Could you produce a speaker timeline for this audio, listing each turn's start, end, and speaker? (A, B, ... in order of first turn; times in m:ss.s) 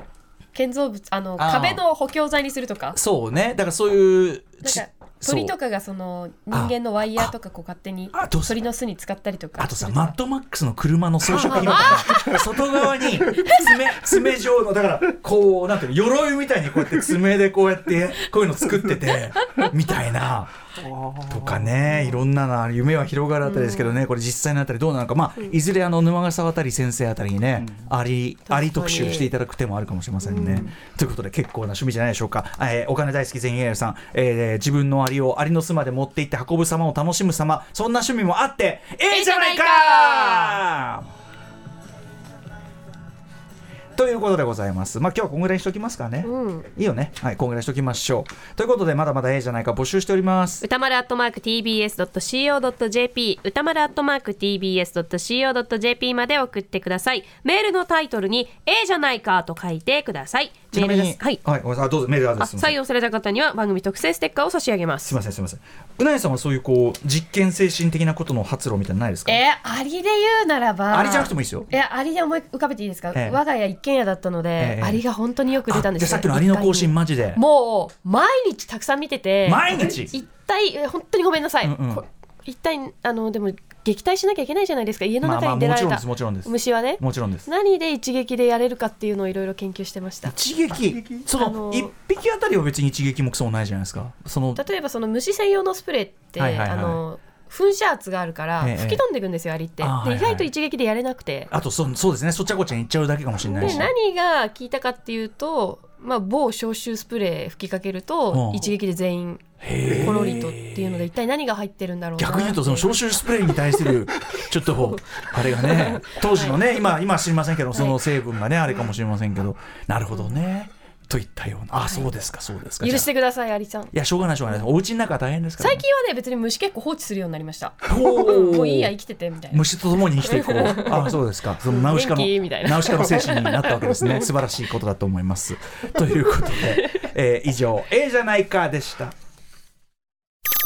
0:00.5-0:03.0 A
0:01.4-0:01.8 B
0:02.9-0:05.5 B
0:04.6-0:10.2 A
0:06.5-0:07.3 B
0:08.1-0:08.6 B
0:09.6-0:20.5 B
0:11.2-0:12.4 A
0:13.4-0:13.7 A
0:19.1-0:19.7 A
0:21.1-0:41.1 B
0:23.4-0:24.0 A
0:28.5-0:29.3 A
0:30.2-0:30.7 A
0:39.1-0:40.6 A
0:44.0-0:50.6 B
0:46.2-0:46.7 A
0:50.6-1:01.4 A
1:00.7-1:02.7 B
1:02.4-1:05.1 A
1:05.0-1:09.4 B
1:09.3-1:30.3 A
1:10.9-1:11.7 B
1:13.1-1:13.4 B
1:14.6-1:15.0 B
1:15.7-1:17.4 B
1:19.4-1:20.1 B
1:21.6-1:22.0 B
1:25.2-1:27.5 B
1:30.2-1:34.6 B
1:31.4-1:31.9 A
1:34.6-1:41.5 A
1:36.4-1:37.0 B
1:38.6-1:39.0 B
1:39.8-1:40.5 B
1:41.5-1:43.9 B
1:43.4-1:53.0 A
1:48.3-1:48.7 B
1:49.6-1:51.1 B
1:52.2-2:03.1 B
1:55.1-1:56.6 A
2:02.8-2:03.9 A
2:03.9-2:05.8 B
2:05.6-2:09.6 A
2:07.8-2:08.9 B
2:09.5-2:19.1 B
2:10.2-2:14.3 A
2:16.4-2:17.1 A